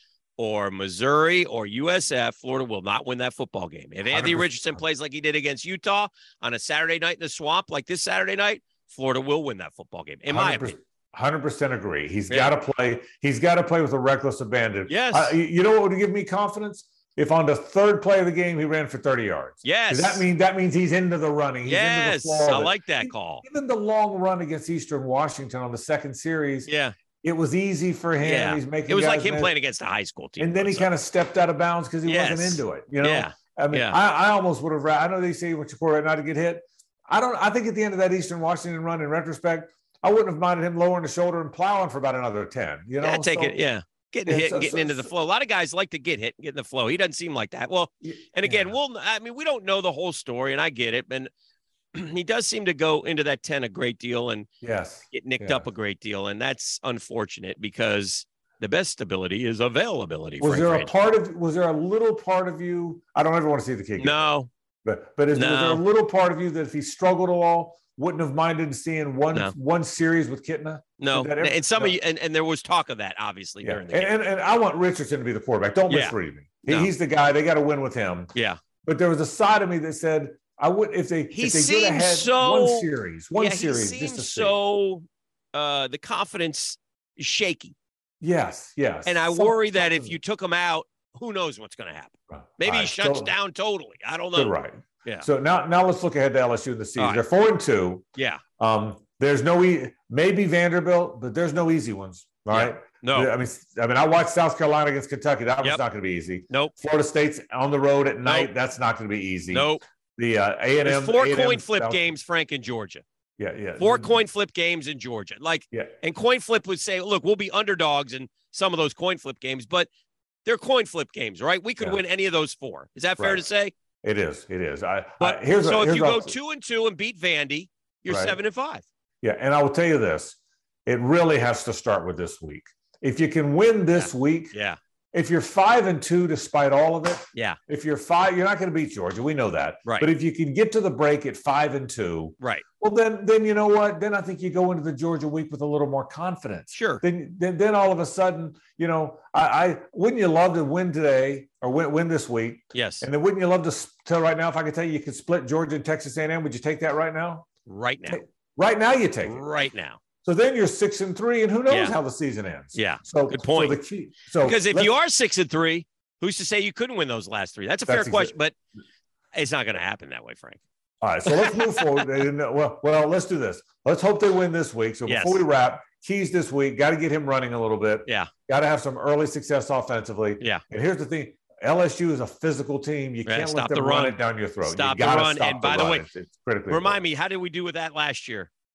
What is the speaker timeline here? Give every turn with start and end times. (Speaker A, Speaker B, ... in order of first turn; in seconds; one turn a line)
Speaker A: 0.4-10.8
Speaker B: 4.1-4.5
Speaker B: 10.3-26.7
Speaker A: 12.3-12.5
Speaker A: 14.9-15.4
Speaker A: 19.6-20.3
Speaker A: 21.6-23.4
Speaker A: 26.7-26.9
Speaker B: 27.2-29.5
Speaker A: 28.2-30.9
Speaker B: 30.4-43.6
Speaker A: 32.0-34.0
Speaker A: 43.0-51.3
Speaker B: 44.3-45.1
Speaker B: 48.0-48.8
Speaker A: 51.9-54.5
Speaker B: 54.6-55.7
Speaker A: 55.1-60.9
Speaker B: 60.4-72.0
Speaker A: 64.0-64.5
Speaker A: 65.3-65.8
Speaker A: 71.0-74.1
Speaker B: 73.6-78.3
Speaker A: 75.9-76.2
Speaker A: 76.7-76.9
Speaker A: 78.3-78.6
Speaker B: 78.8-84.6
Speaker A: 81.3-87.8
Speaker B: 88.2-90.2
Speaker A: 89.1-94.5
Speaker B: 92.3-93.3
Speaker B: 94.3-98.0
Speaker A: 97.0-97.2
Speaker A: 98.2-98.4
Speaker B: 98.6-112.1
Speaker A: 102.5-103.3
Speaker A: 106.5-106.8
Speaker A: 108.2-108.5
Speaker A: 109.5-109.8
Speaker A: 110.8-113.0
Speaker B: 113.4-114.2
Speaker A: 113.8-119.9
Speaker A: 120.5-123.7
Speaker B: 123.2-123.4
Speaker B: 124.0-126.3
Speaker A: 125.2-128.8
Speaker B: 128.1-128.4
Speaker B: 129.2-134.5
Speaker A: 133.9-134.8
Speaker B: 135.1-157.5
Speaker A: 137.3-137.6
Speaker A: 146.7-147.0
Speaker A: 152.7-153.1
Speaker A: 157.7-158.2
Speaker B: 158.1-159.4
Speaker A: 159.2-160.0
Speaker B: 160.2-165.0
Speaker A: 161.7-162.0
Speaker A: 162.7-163.8
Speaker A: 164.4-168.6
Speaker B: 167.9-168.3
Speaker A: 169.3-170.6
Speaker B: 171.0-187.0
Speaker A: 171.3-172.1
Speaker A: 175.1-175.4
Speaker A: 183.3-186.1
Speaker A: 186.7-188.5